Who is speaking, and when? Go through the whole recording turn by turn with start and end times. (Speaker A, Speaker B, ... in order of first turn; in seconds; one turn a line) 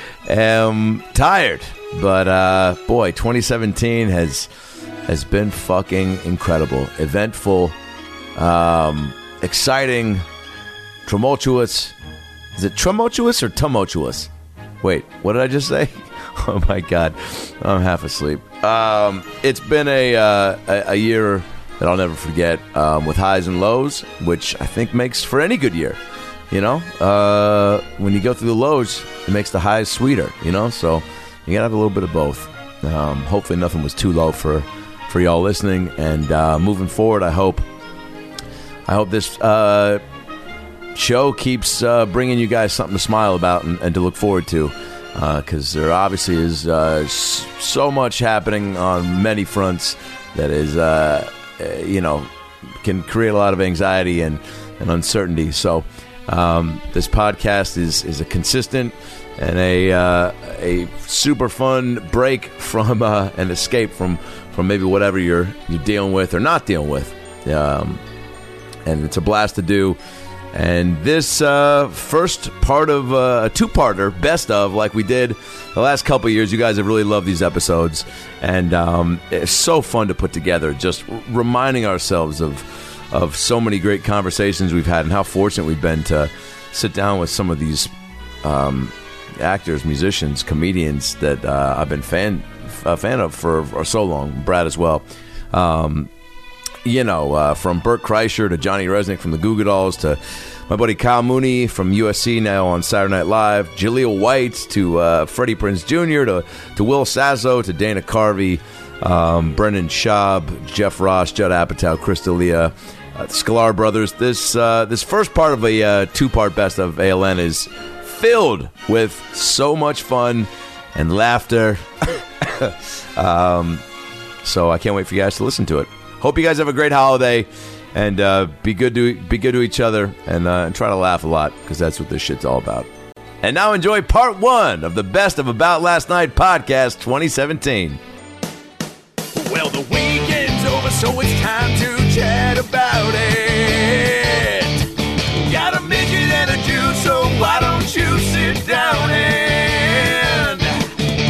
Speaker A: 0.3-4.5
Speaker A: 5.1-7.7
Speaker A: 8.3-10.2
Speaker A: 11.1-11.9
Speaker A: 12.6-14.3
Speaker A: 14.8-26.0
Speaker A: 26.5-37.6
Speaker A: 38.9-40.0
Speaker A: 40.9-52.3
Speaker A: 52.8-68.0
Speaker A: 68.8-70.0
Speaker A: 70.5-96.1
Speaker A: 96.8-121.8
Speaker A: 122.6-123.8
Speaker A: 124.4-132.9
Speaker A: 133.4-138.0
Speaker A: 139.4-144.8
Speaker A: 145.4-150.7